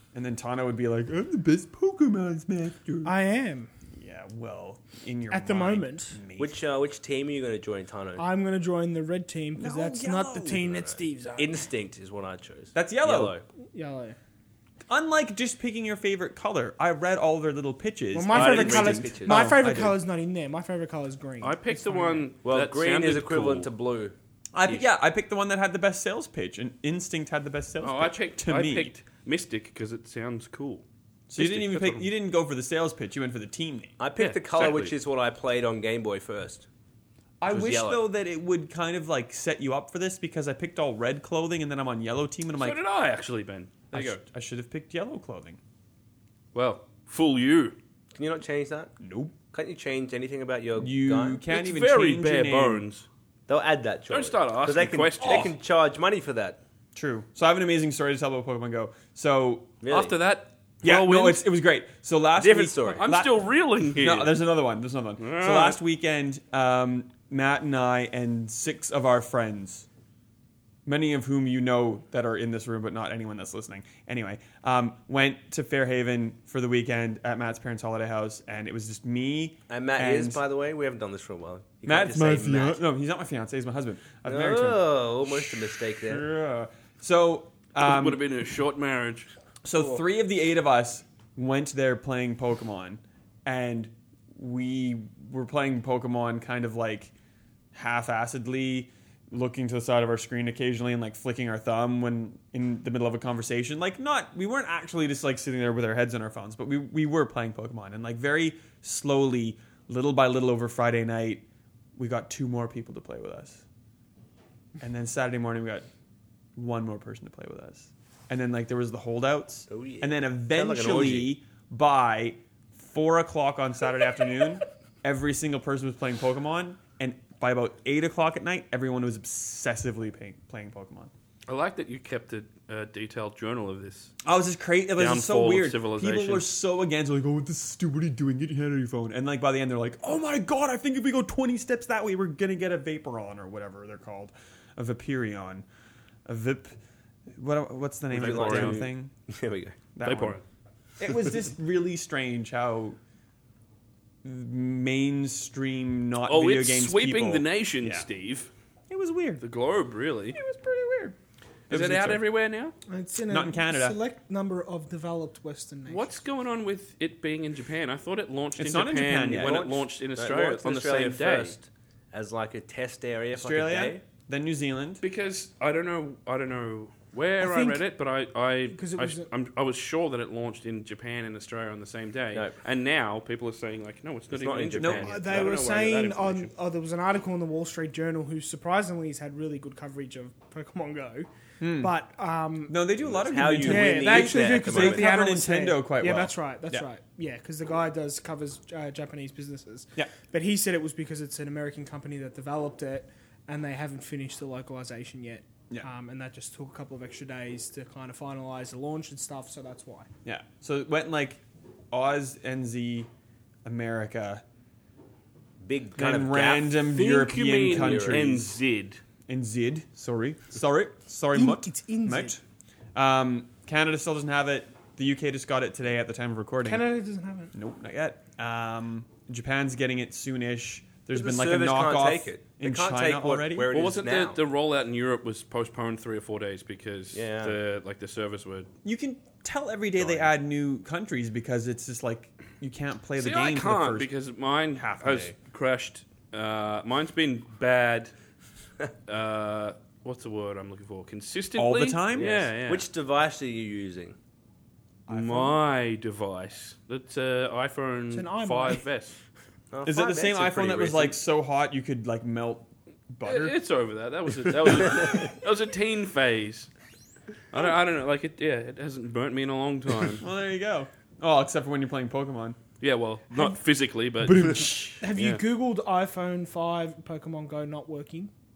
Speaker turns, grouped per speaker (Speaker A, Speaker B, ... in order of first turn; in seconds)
Speaker A: 0.1-3.1, 3.9-6.6, 9.6-10.7, 12.8-13.3, 14.9-20.0, 24.5-28.9, 31.3-34.0, 37.4-42.8, 43.9-45.6, 49.0-49.3, 50.8-52.9, 57.0-59.8, 60.8-69.9, 70.9-80.4, 81.9-88.2, 89.6-97.1, 97.7-111.5, 112.0-113.6, 114.8-115.9, 116.6-131.1, 134.2-145.7, 146.3-146.8, 147.3-149.1, 149.9-150.4, 151.0-153.0, 154.2-158.1, 158.9-159.4, 160.3-161.2, 161.7-162.2, 163.3-164.0, 168.6-169.6, 173.3-175.0, 184.8-185.1, 191.6-191.9, 192.7-196.9, 210.2-211.4, 211.9-213.1, 213.7-214.4, 216.0-218.6, 219.3-222.4, 222.9-226.9, 227.5-233.7, 238.8-244.1, 244.7-245.3, 251.6-252.3, 255.1-255.6, 259.9-263.6, 270.2-272.6, 274.2-275.0
Speaker B: 3.0-3.7, 5.3-6.2, 8.2-11.7, 13.7-14.2, 18.1-22.3, 162.9-166.2, 177.4-177.8, 178.7-179.3, 185.0-192.8, 193.5-210.1, 221.3-222.4, 226.6-227.5, 258.1-258.8, 275.0-278.3
Speaker C: 6.4-8.2, 10.7-13.4, 18.3-19.6, 22.4-24.1, 34.0-36.7, 37.5-38.0, 48.2-48.9, 49.5-51.4, 53.5-56.6, 59.8-60.1, 62.4-63.0, 79.7-82.8, 84.2-86.2, 119.7-121.3, 148.1-149.8, 169.4-174.0, 184.3-185.5, 193.0-195.1, 215.6-216.9, 217.7-218.2, 231.1-234.4, 237.1-237.6, 252.2-254.2, 259.7-261.2
Speaker D: 18.4-19.0, 21.4-23.7, 27.8-30.8, 31.4-32.1, 34.1-34.9, 42.6-44.2, 46.5-47.8, 51.5-53.1, 54.1-55.5, 59.9-61.5, 63.0-64.4, 65.2-65.8, 87.8-89.3, 131.5-134.1, 135.0-136.5, 148.1-148.9, 150.0-150.4, 156.3-158.5, 159.4-160.4, 161.7-162.8, 165.9-171.6, 175.0-186.5, 216.9-219.0, 233.7-238.7, 240.0-240.3, 243.2-248.1, 249.1-252.9, 255.1-259.2, 263.2-266.7, 267.5-270.3, 272.8-275.4